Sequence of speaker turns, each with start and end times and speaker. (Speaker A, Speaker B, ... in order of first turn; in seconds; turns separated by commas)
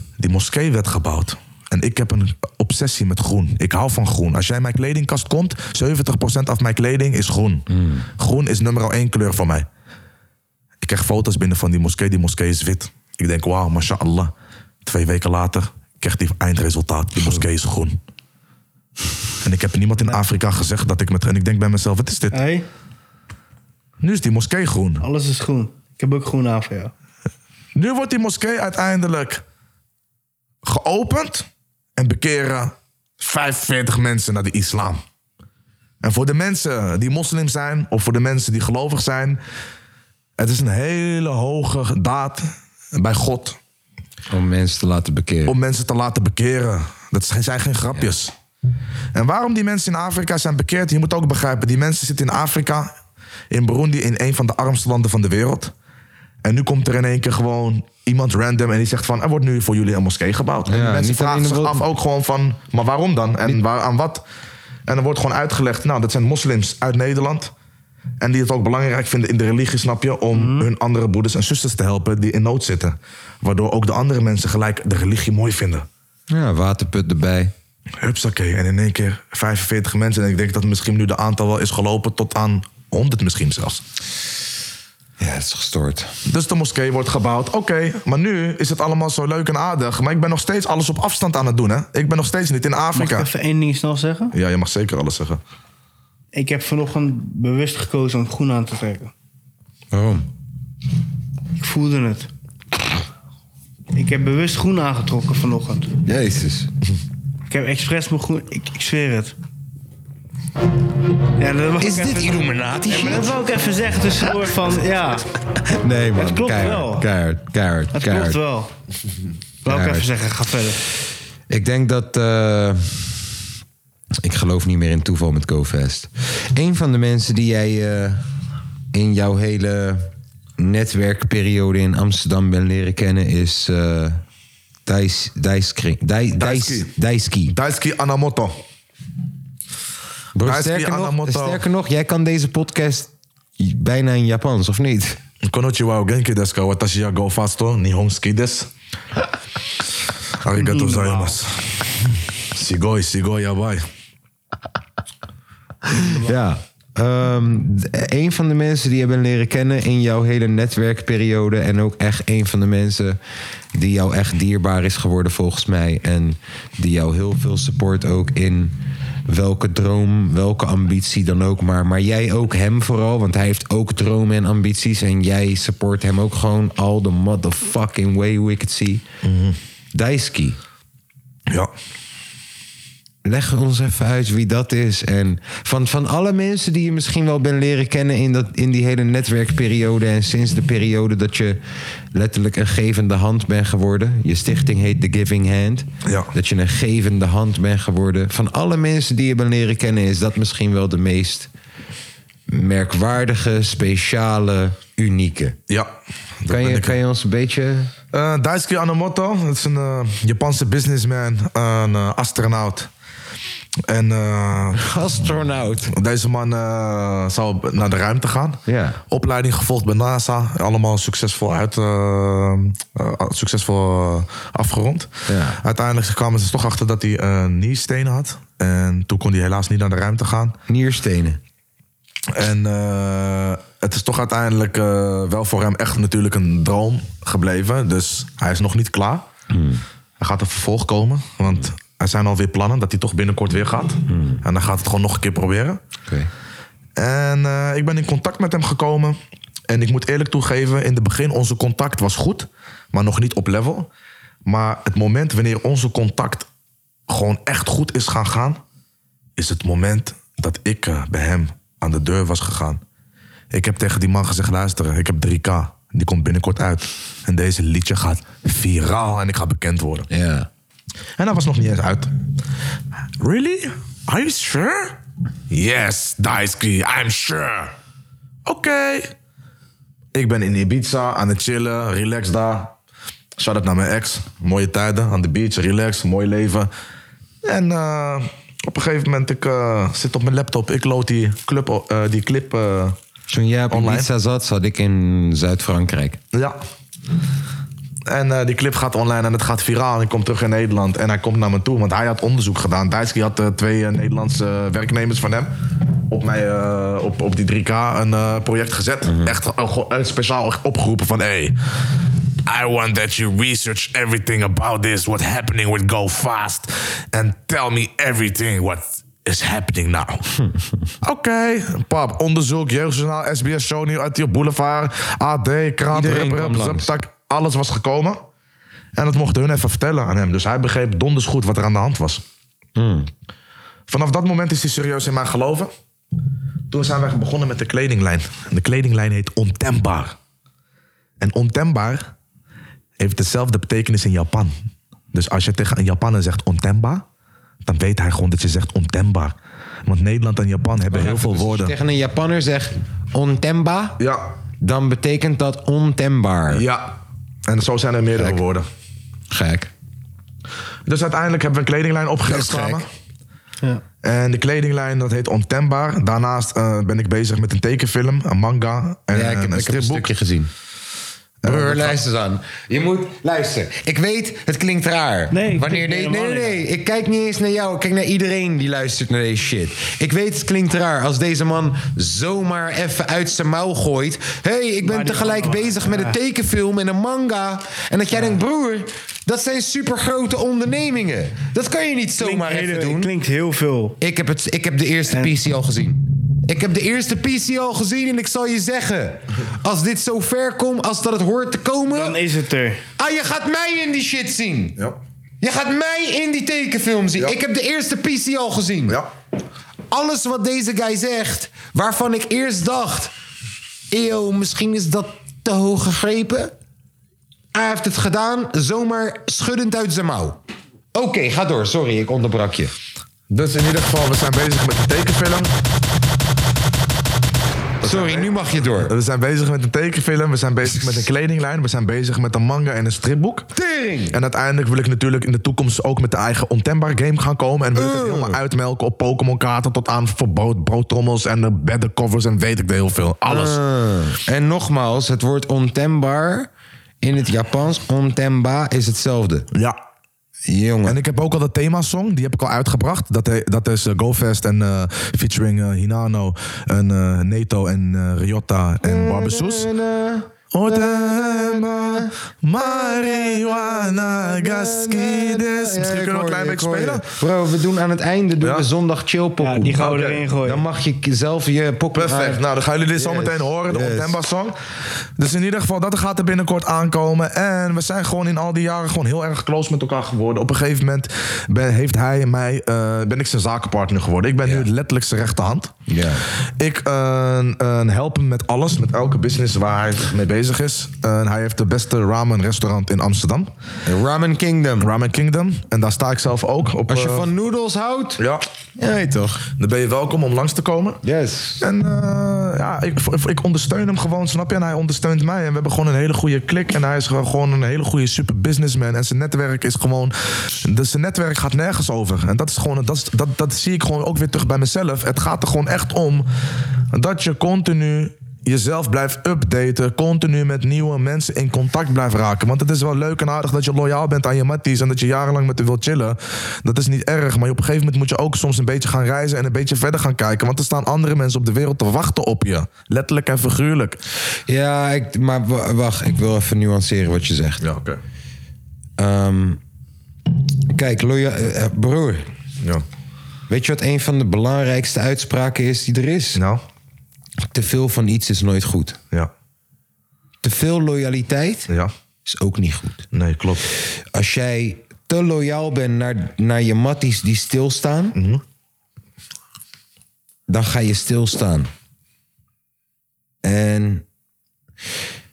Speaker A: 0.2-7.7, Speaker B: 7.7-8.1, Speaker A: 8.2-9.7, Speaker A: 10.8-14.3, Speaker A: 14.8-18.0, Speaker A: 19.4-22.4, Speaker C: 22.3-22.7, Speaker A: 24.0-25.0, Speaker C: 25.0-26.9, Speaker A: 27.8-29.4, Speaker A: 30.6-35.0, Speaker A: 36.0-39.4, Speaker A: 40.4-43.6, Speaker B: 44.3-45.6, Speaker A: 45.5-48.3, Speaker A: 49.1-52.9, Speaker A: 53.5-55.7, Speaker A: 56.4-64.2, Speaker B: 60.7-61.9, Speaker A: 64.9-67.5, Speaker A: 68.2-75.9, Speaker C: 70.3-70.7, Speaker B: 76.3-77.5, Speaker A: 78.0-83.8, Speaker B: 85.2-86.1, Speaker A: 86.3-93.3, Speaker C: 93.0-94.3, Speaker A: 94.3-95.4, Speaker C: 96.3-99.1, Speaker B: 99.9-100.3, Speaker C: 101.6-102.3, Speaker C: 103.9-105.9, Speaker B: 106.0-106.7, Speaker C: 107.5-109.4, Speaker C: 111.4-115.2, Speaker B: 111.8-113.3, Speaker B: 115.7-118.4, Speaker C: 116.2-117.1, Speaker C: 117.9-118.7, Speaker C: 119.7-120.8, Speaker B: 119.7-120.1, Speaker B: 121.5-123.3, Speaker B: 124.2-128.2, Speaker B: 128.9-134.2, Speaker B: 134.9-137.6, Speaker A: 136.4-136.9, Speaker A: 137.5-138.6, Speaker B: 140.3-145.2, Speaker A: 140.4-141.6, Speaker A: 145.4-148.7, Speaker A: 150.4-151.6, Speaker C: 150.6-151.4, Speaker A: 152.5-153.8, Speaker B: 156.2-163.2, Speaker B: 163.7-179.0, Speaker A: 179.2-179.6, Speaker B: 179.9-180.6, Speaker B: 183.2-191.6, Speaker B: 192.1-201.5, Speaker A: 196.1-196.3, Speaker B: 202.5-205.6, Speaker A: 205.7-207.0, Speaker B: 206.5-207.9, Speaker A: 208.1-212.9, Speaker A: 213.9-214.9, Speaker B: 214.8-215.9, Speaker A: 215.9-230.6, Speaker B: 218.7-219.0, Speaker B: 225.3-225.6, Speaker B: 230.7-231.4, Speaker A: 232.3-239.3, Speaker B: 239.5-239.8, Speaker A: 240.2-245.8, Speaker B: 244.1-244.4, Speaker A: 247.0-249.2, Speaker A: 249.7-253.9, Speaker A: 254.5-256.5, Speaker A: 257.1-258.6, Speaker A: 259.4-262.8, Speaker A: 263.5-270.1, Speaker B: 270.1-270.5, Speaker A: 271.2-272.1, Speaker A: 273.2-275.0, Speaker A: 275.5-277.7, Speaker A: 278.5-279.1, Speaker A: 280.1-282.7, Speaker A: 283.4-286.7, Speaker A: 287.4-293.0, Speaker B: 293.3-296.2, Speaker A: 293.7-294.1, Speaker A: 298.1-305.5, Speaker A: 306.1-311.6, Speaker B: 309.1-309.3, Speaker A: 312.5-320.2, Speaker A: 321.0-328.2, Speaker B: 325.9-326.9, Speaker A: 329.0-332.2, Speaker B: 332.8-333.1, Speaker A: 333.9-335.7, Speaker A: 336.7-340.2, Speaker A: 341.2-342.1, Speaker A: 343.0-344.5, Speaker A: 345.1-347.0, Speaker A: 347.7-349.4, Speaker A: 349.9-351.7, Speaker B: 350.9-354.0, Speaker A: 354.0-354.3, Speaker B: 354.6-356.6, Speaker A: 356.5-358.7, Speaker B: 359.3-359.7, Speaker A: 360.9-362.9, Speaker B: 362.3-362.8, Speaker A: 364.0-370.1, Speaker B: 369.1-370.5, Speaker A: 371.4-372.0, Speaker B: 371.4-393.1, Speaker C: 375.3-376.6, Speaker C: 384.8-386.2, Speaker C: 392.2-394.0, Speaker B: 394.0-402.2, Speaker C: 395.1-395.3, Speaker C: 401.9-402.8, Speaker B: 403.0-404.8, Speaker B: 405.4-409.0, Speaker B: 409.9-413.1, Speaker B: 413.9-416.5, Speaker B: 417.5-420.4, Speaker B: 420.9-422.7, Speaker A: 423.3-425.5, Speaker A: 427.8-433.5, Speaker B: 427.8-428.9, Speaker B: 433.5-434.2, Speaker A: 434.1-443.6, Speaker B: 437.8-438.4, Speaker B: 443.2-446.5, Speaker B: 447.0-449.5, Speaker B: 450.5-451.0, Speaker A: 450.9-459.7, Speaker B: 458.8-472.4, Speaker A: 460.5-467.1, Speaker C: 469.4-470.6, Speaker A: 469.8-470.2, Speaker A: 471.9-474.6, Speaker B: 473.0-474.2, Speaker A: 475.2-485.7, Speaker B: 485.9-486.3, Speaker A: 486.6-493.5, Speaker B: 493.9-494.9, Speaker A: 494.8-497.3, Speaker B: 496.9-498.2, Speaker A: 498.2-498.4, Speaker B: 498.8-499.5, Speaker A: 499.6-501.0, Speaker B: 501.0-501.7, Speaker A: 501.6-516.3, Speaker A: 516.9-534.0, Speaker B: 534.5-537.6, Speaker A: 537.6-538.0, Speaker B: 539.0-539.6, Speaker B: 540.7-542.3, Speaker B: 543.5-546.4, Speaker A: 546.4-546.6, Speaker B: 547.5-549.0, Speaker B: 550.4-551.7, Speaker B: 552.3-553.1, Speaker A: 553.1-553.7, Speaker B: 554.1-558.2, Speaker A: 558.1-558.4, Speaker B: 560.5-561.7, Speaker B: 563.4-564.0